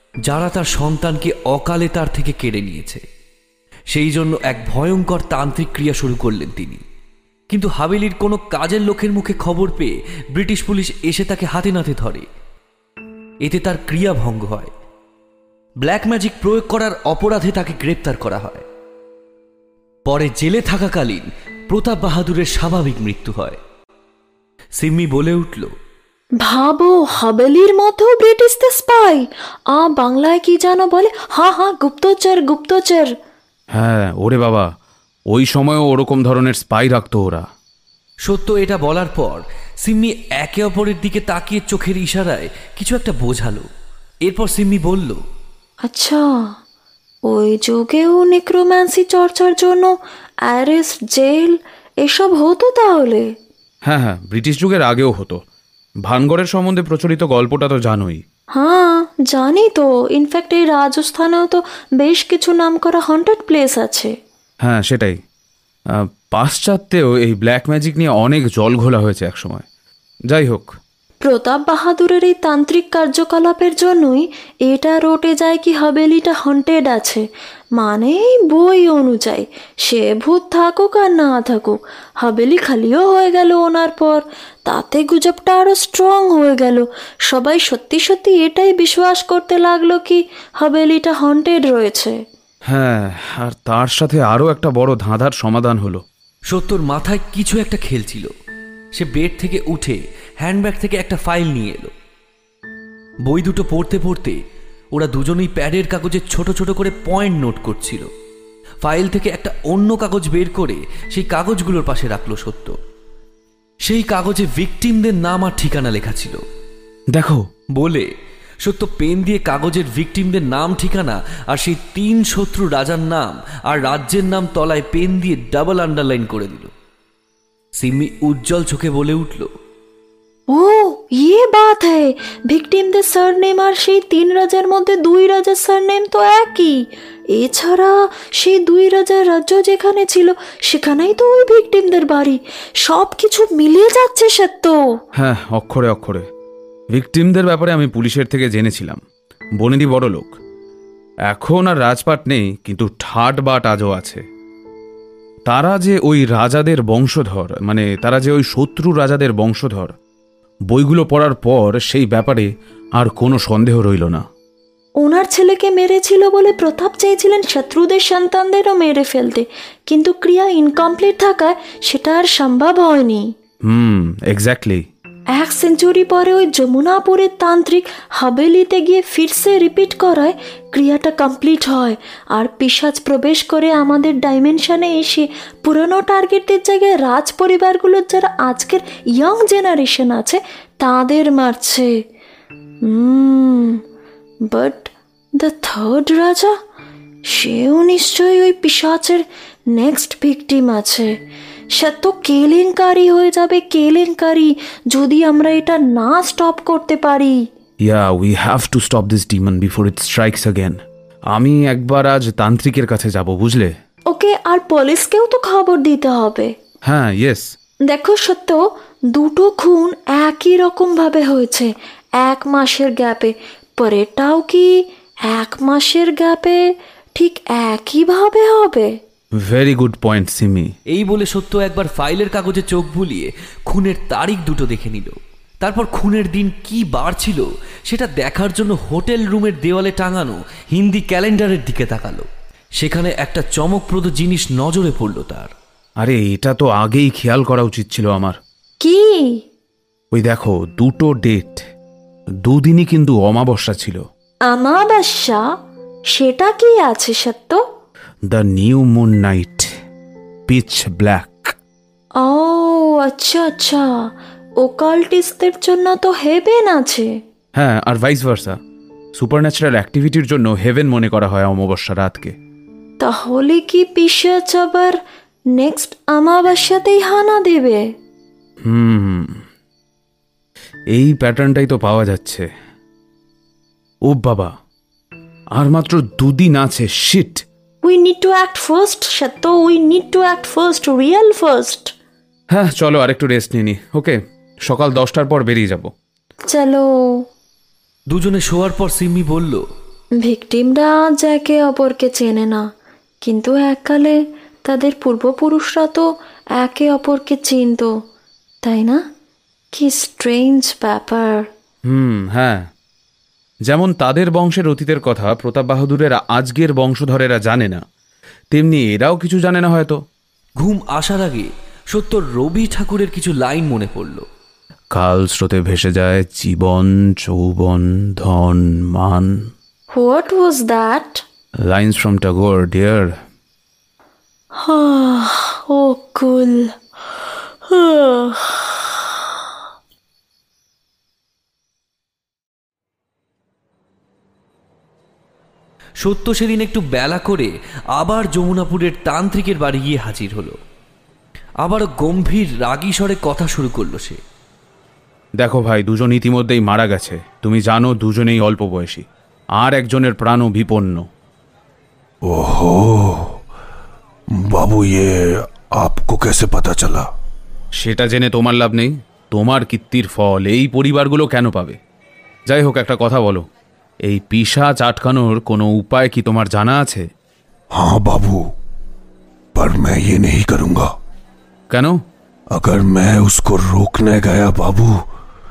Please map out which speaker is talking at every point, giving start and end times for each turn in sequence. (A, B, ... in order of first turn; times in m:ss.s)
0:00.2-0:03.0 A
0:03.9-0:06.8 A
0:07.5-0:12.3 A
0:13.4-0:14.7 A
0:15.8-0:18.6 A
0:20.1-0:23.6 A
0:24.8-0:25.7 A
0:26.4-0:33.1 B
0:33.7-0:34.7 C
0:35.3-0:37.5 C
0:38.2-0:43.7 A
0:44.2-0:45.2 A
0:45.8-0:46.5 B
0:47.3-0:49.9 B
0:50.5-0:53.3 B
0:53.8-0:55.4 C
0:56.0-0:58.2 C
0:58.5-1:04.1 B
1:04.6-1:05.2 C
1:05.9-1:09.6 C
1:10.3-1:10.7 C
1:11.2-1:17.2 B
1:17.8-1:32.2 B
1:32.7-1:36.0 C
1:36.5-1:38.3 A
1:38.9-1:41.9 A
1:43.2-1:44.4 A
1:44.9-1:48.1 A
1:48.8-1:52.8 A
1:53.8-1:56.4 A
1:57.1-1:57.5 C
1:57.7-1:58.1 A
1:58.6-2:06.7 A
2:07.8-2:09.5 A
2:10.5-2:24.8 B
2:25.2-2:26.3 C
2:26.9-2:29.0 C
2:29.6-2:30.4 C
2:31.3-2:34.2 C
2:35.5-2:39.9 C
2:40.7-2:44.2 C
2:45.0-2:53.3 B
2:53.6-2:54.8 C
2:55.3-3:11.9 B
3:12.8-3:13.8 B
3:14.5-3:16.6 B
3:17.3-3:21.1 B
3:21.7-3:27.4 B
3:27.8-3:33.7 C
3:34.1-3:36.5 B
3:36.8-3:37.5 C
3:37.9-3:44.7 B
3:45.3-3:46.6 B
3:47.2-3:48.9 B
3:49.4-3:50.7 C
3:50.9-4:02.3 A
4:02.8-4:05.5 A
4:06.0-4:08.4 C
4:08.8-4:09.4 B
4:10.1-4:11.6 C
4:12.4-4:14.0 C
4:14.5-4:15.4 B
4:16.1-4:17.6 B
4:18.3-4:19.7 C
4:20.5-4:21.5 C
4:22.2-4:23.9 B
4:24.6-4:27.1 B
4:27.5-4:28.6 C
4:29.2-4:32.3 C
4:33.0-4:35.0 B
4:35.5-4:37.8 B
4:38.6-4:39.4 C
4:40.9-4:42.5 C
4:44.0-4:44.5 C
4:45.5-4:47.4 C
4:47.8-4:51.9 B
4:52.5-4:55.9 C
4:56.5-4:57.2 B
4:58.1-4:59.6 A
5:00.2-5:02.7 B
5:03.2-5:06.0 B
5:06.6-5:07.9 B
5:08.6-5:09.0 B
5:09.7-5:11.5 B
5:11.9-5:12.7 C
5:13.7-5:17.8 C
5:18.5-5:20.0 C
5:20.6-5:24.2 A
5:24.9-5:29.5 C
5:29.9-5:31.2 B
5:31.7-5:33.2 C
5:34.6-5:36.7 B
5:37.7-5:39.3 B
5:46.0-5:50.6 A
5:51.6-5:54.2 A
5:55.4-5:59.0 C
5:59.6-6:01.1 C
6:02.2-6:03.4 D
6:04.3-6:07.1 D
6:07.8-6:11.8 C
6:12.5-6:13.5 C
6:14.0-6:17.1 C
6:17.7-6:18.4 D
6:19.5-6:20.9 D
6:21.7-6:22.0 C
6:22.5-6:25.0 D